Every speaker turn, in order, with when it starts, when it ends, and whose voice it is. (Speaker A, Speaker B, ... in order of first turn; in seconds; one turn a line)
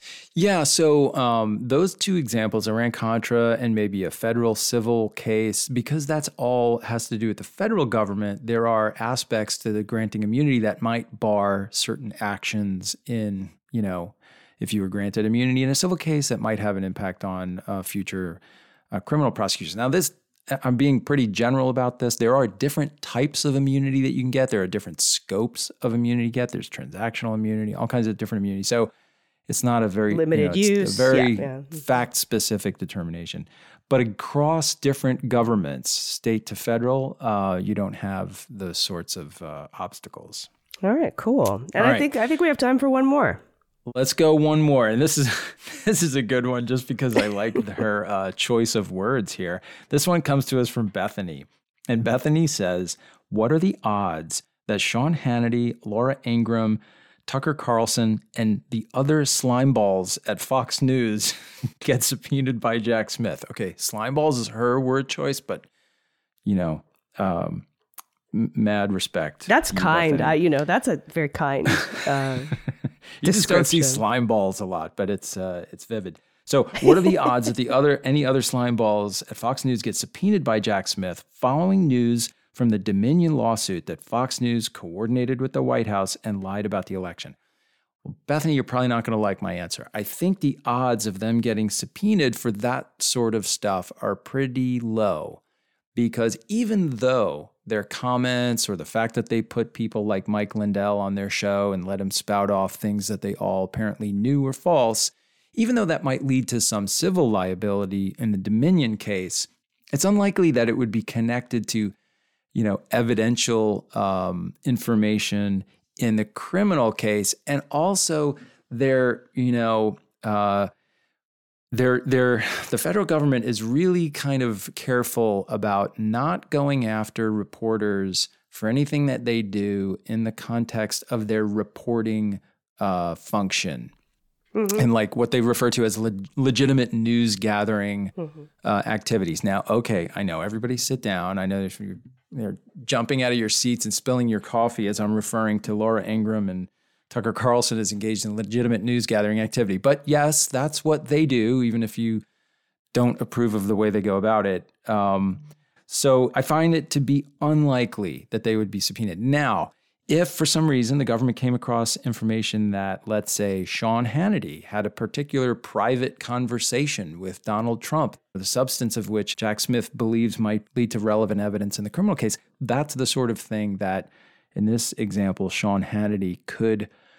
Speaker A: 0.3-18.4
Speaker A: 18.9-28.9
Speaker A: 29.5-40.5
Speaker B: 30.1-31.7
Speaker B: 40.8-43.4
Speaker A: 41.8-42.1
Speaker A: 43.9-65.7
Speaker A: 66.4-67.6
Speaker A: 68.3-70.4
Speaker B: 69.5-72.5
Speaker A: 73.2-87.3
Speaker B: 73.2-74.0
Speaker A: 88.0-95.4
Speaker A: 95.9-111.9
Speaker A: 112.5-120.7
Speaker A: 121.7-133.9
Speaker A: 134.7-152.2
Speaker A: 152.9-176.9